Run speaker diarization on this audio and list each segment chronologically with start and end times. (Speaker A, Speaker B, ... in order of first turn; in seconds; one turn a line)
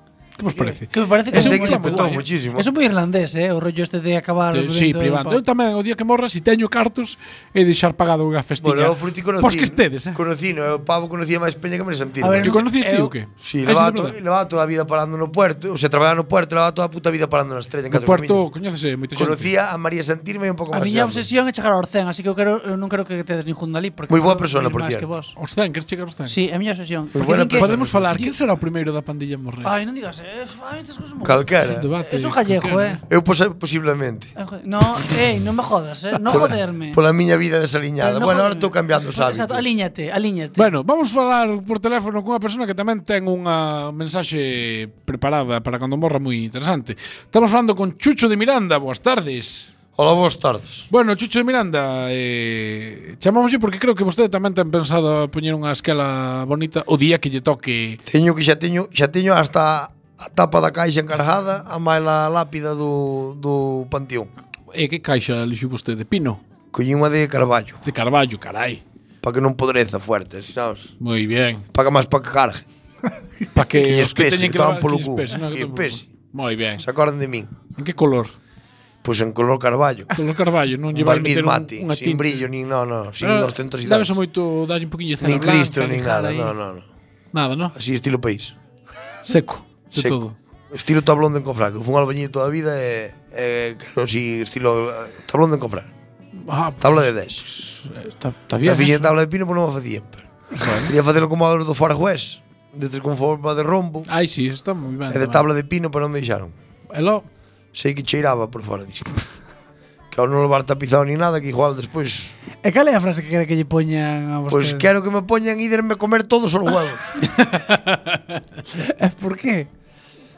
Speaker A: 0.4-2.2
Speaker B: 0.5-5.4
Speaker C: 1.3-2.7
Speaker A: 4.5-10.2
Speaker C: 8.6-12.6
Speaker B: 12.2-13.2
Speaker A: 12.4-14.2
Speaker C: 13.4-18.5
Speaker A: 17.9-19.5
Speaker C: 19.1-21.3
Speaker B: 20.7-25.4
Speaker C: 24.1-25.1
Speaker A: 25.4-26.4
Speaker B: 26.3-28.3
Speaker C: 27.1-28.1
Speaker A: 27.6-29.7
Speaker B: 29.6-33.0
Speaker C: 31.2-31.9
Speaker A: 31.7-33.0
Speaker C: 33.1-34.3
Speaker B: 34.4-37.0
Speaker C: 36.3-39.7
Speaker B: 38.0-40.7
Speaker A: 40.6-49.7
Speaker C: 50.0-50.9
Speaker A: 50.9-58.0
Speaker C: 58.1-64.3
Speaker A: 64.7-66.4
Speaker C: 66.7-67.8
Speaker A: 67.8-68.8
Speaker C: 69.2-70.9
Speaker A: 71.0-71.7
Speaker C: 71.7-72.6
Speaker A: 73.5-76.8
Speaker C: 73.7-76.1
Speaker C: 76.8-77.5
Speaker A: 77.7-78.3
Speaker C: 79.0-80.2
Speaker A: 80.2-82.5
Speaker C: 80.9-84.2
Speaker A: 83.2-86.5
Speaker C: 85.2-86.9
Speaker A: 87.3-87.7
Speaker C: 87.7-88.5
Speaker A: 89.2-90.3
Speaker C: 89.9-95.9
Speaker A: 96.4-99.1
Speaker C: 96.8-97.4
Speaker C: 98.6-104.1
Speaker A: 100.6-100.9
Speaker A: 104.1-105.4
Speaker C: 105.1-106.5
Speaker A: 106.9-107.3
Speaker C: 107.7-109.2
Speaker C: 110.1-112.3
Speaker B: 112.6-114.9
Speaker C: 114.5-117.0
Speaker B: 118.7-119.7